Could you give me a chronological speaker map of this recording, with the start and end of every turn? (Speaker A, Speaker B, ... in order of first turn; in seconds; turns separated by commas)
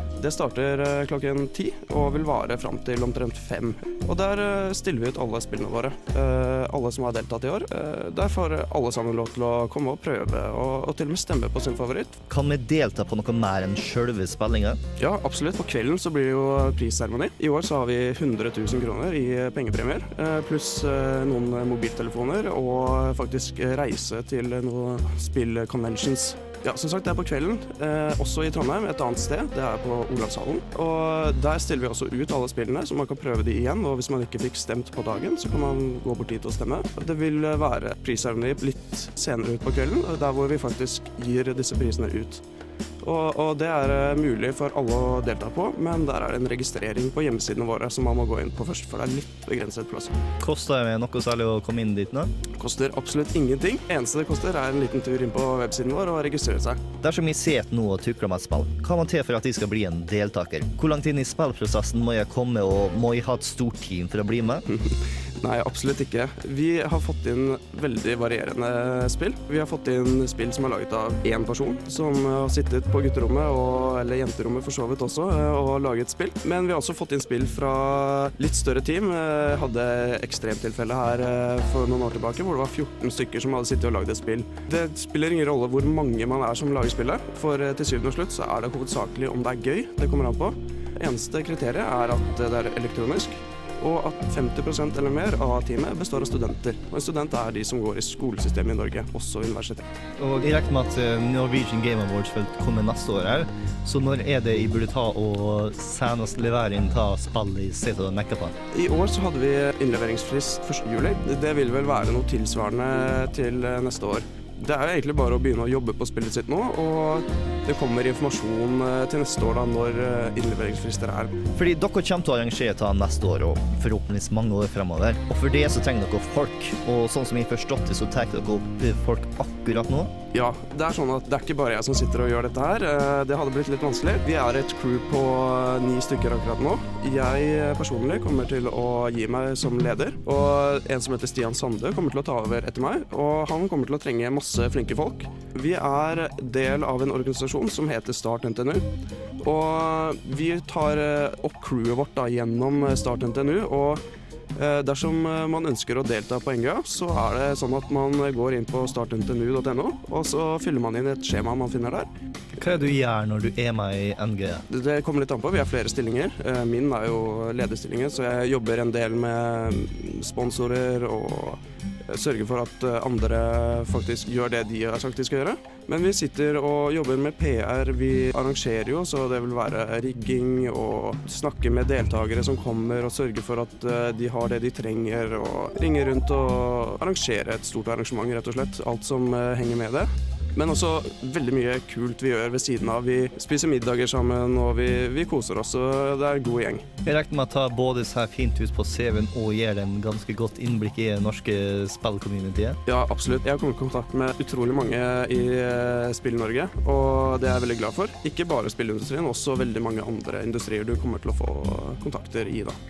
Speaker A: 0.2-12.2, Speaker B: 12.3-14.8, Speaker A: 15.0-42.4, Speaker A: 43.0-50.1, Speaker B: 50.4-52.3, Speaker A: 52.5-56.8, Speaker B: 57.0-64.6, Speaker A: 64.7-99.9, Speaker B: 100.2-108.5, Speaker A: 108.7-121.4, Speaker B: 121.5-130.1, Speaker A: 130.3-148.8, Speaker A: 149.4-154.0, Speaker A: 154.5-162.1, Speaker B: 162.5-164.6, Speaker A: 164.7-196.9, Speaker B: 197.0-202.8, Speaker A: 202.8-212.8